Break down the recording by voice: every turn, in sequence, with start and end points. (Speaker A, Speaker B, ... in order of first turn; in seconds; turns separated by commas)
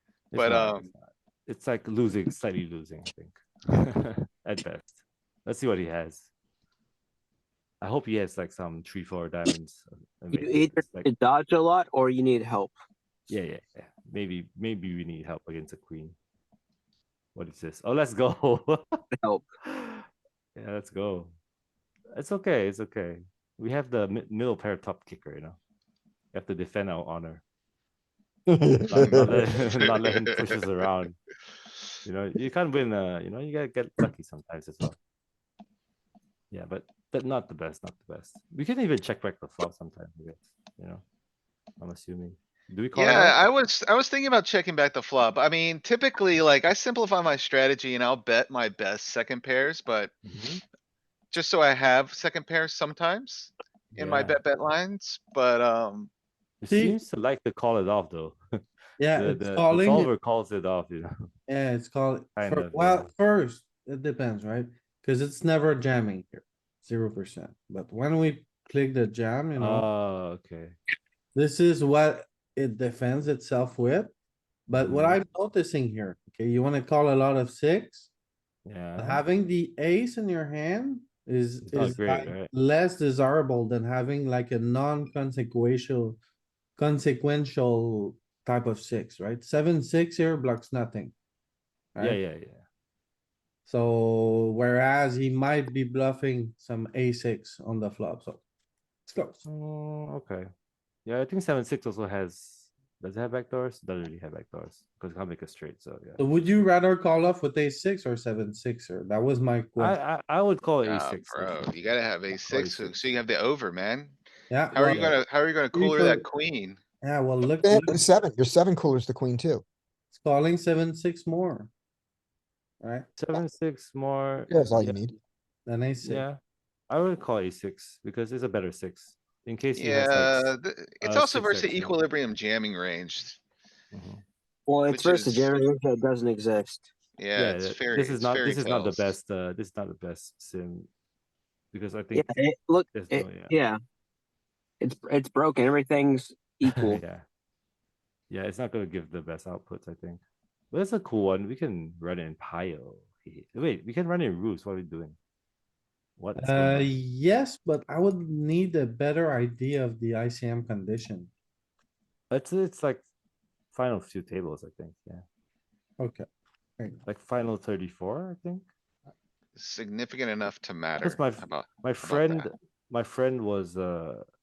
Speaker A: 0.3-6.3, Speaker B: 0.3-0.9, Speaker A: 7.8-11.1, Speaker C: 10.3-12.7, Speaker A: 13.3-16.1, Speaker A: 17.3-18.8, Speaker C: 19.1-19.4, Speaker A: 19.7-20.0, Speaker A: 20.6-21.3, Speaker A: 22.1-25.6, Speaker A: 26.3-27.4, Speaker D: 28.5-29.3, Speaker A: 28.9-31.2, Speaker A: 32.0-35.0, Speaker A: 36.5-41.0, Speaker A: 41.8-43.4, Speaker B: 42.9-50.1, Speaker A: 50.2-50.6, Speaker B: 51.3-56.1, Speaker A: 53.9-54.4, Speaker A: 56.6-58.4, Speaker E: 56.7-57.0, Speaker E: 59.0-60.1, Speaker A: 59.1-61.1, Speaker E: 61.5-69.9, Speaker A: 62.4-63.1, Speaker A: 69.6-70.8, Speaker E: 71.3-74.1, Speaker E: 74.7-78.1, Speaker A: 74.7-75.2, Speaker A: 78.6-79.2, Speaker E: 79.0-86.2, Speaker A: 81.6-82.5, Speaker E: 86.8-91.1, Speaker A: 92.0-92.6, Speaker E: 93.7-98.4, Speaker E: 99.0-99.4, Speaker A: 99.4-100.5, Speaker A: 101.0-106.2, Speaker E: 106.2-110.0, Speaker A: 109.8-111.7, Speaker B: 110.8-114.2, Speaker A: 112.3-113.0, Speaker E: 114.5-115.2, Speaker B: 114.7-116.8, Speaker A: 114.8-115.2, Speaker E: 115.7-116.2, Speaker E: 117.0-118.0, Speaker D: 117.6-119.6, Speaker E: 120.1-121.7, Speaker E: 122.8-123.1, Speaker A: 123.2-125.0, Speaker D: 124.5-125.2, Speaker E: 125.7-126.3, Speaker A: 126.0-126.4, Speaker A: 126.9-132.0, Speaker B: 129.8-133.4, Speaker A: 133.9-134.2, Speaker C: 134.7-136.9, Speaker B: 134.9-135.5, Speaker B: 137.2-139.1, Speaker A: 137.3-140.9, Speaker A: 141.7-142.3, Speaker C: 142.1-143.8, Speaker A: 142.9-143.6, Speaker C: 144.8-147.0, Speaker A: 146.8-147.2, Speaker A: 148.3-155.2, Speaker A: 156.2-156.9, Speaker E: 156.4-161.3, Speaker A: 162.3-163.0, Speaker A: 163.7-165.2, Speaker E: 166.0-166.2, Speaker A: 167.0-168.6, Speaker B: 169.6-172.5, Speaker A: 171.0-174.2